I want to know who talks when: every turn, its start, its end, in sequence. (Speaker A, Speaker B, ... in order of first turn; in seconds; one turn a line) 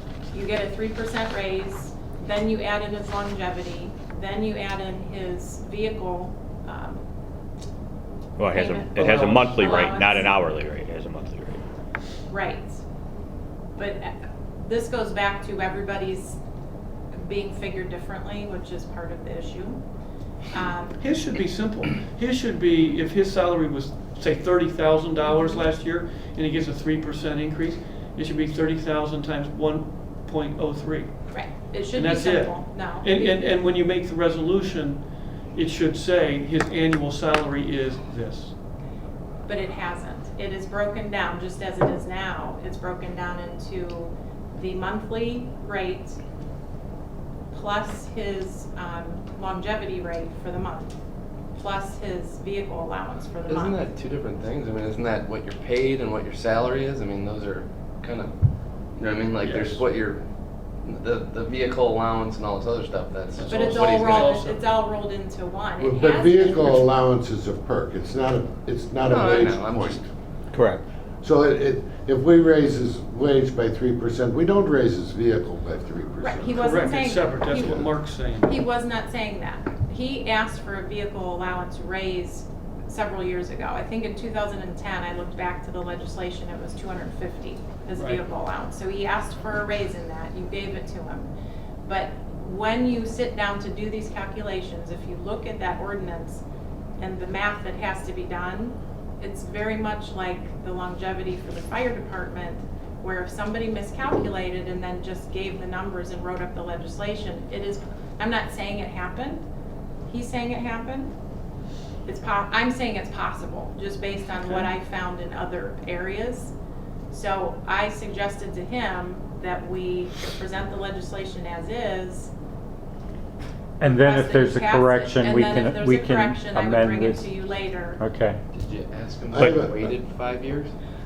Speaker A: 0.3-7.0
Speaker B: 8.4-11.6
Speaker A: 8.5-10.4
Speaker C: 9.0-9.8
Speaker A: 12.3-12.8
Speaker A: 13.8-16.4
Speaker A: 17.2-19.8
Speaker A: 20.5-21.0
Speaker C: 21.0-31.1
Speaker A: 25.2-25.6
Speaker A: 31.3-33.1
Speaker C: 31.9-35.0
Speaker C: 35.5-38.5
Speaker A: 39.5-46.2
Speaker A: 47.5-50.9
Speaker A: 51.6-53.8
Speaker D: 53.5-58.3
Speaker D: 59.0-60.2
Speaker C: 59.4-59.8
Speaker D: 60.8-64.4
Speaker C: 63.4-64.6
Speaker A: 63.5-66.9
Speaker E: 65.8-70.0
Speaker D: 69.0-70.0
Speaker B: 70.5-70.8
Speaker E: 71.2-77.0
Speaker A: 76.2-77.9
Speaker C: 76.6-78.6
Speaker A: 78.4-91.3
Speaker C: 87.9-88.2
Speaker A: 91.8-96.4
Speaker A: 97.0-109.4
Speaker A: 110.1-111.1
Speaker A: 112.0-116.5
Speaker C: 114.4-114.7
Speaker A: 117.1-122.3
Speaker F: 123.8-127.3
Speaker A: 123.9-128.0
Speaker F: 128.0-128.4
Speaker D: 128.5-130.7
Speaker E: 129.3-129.9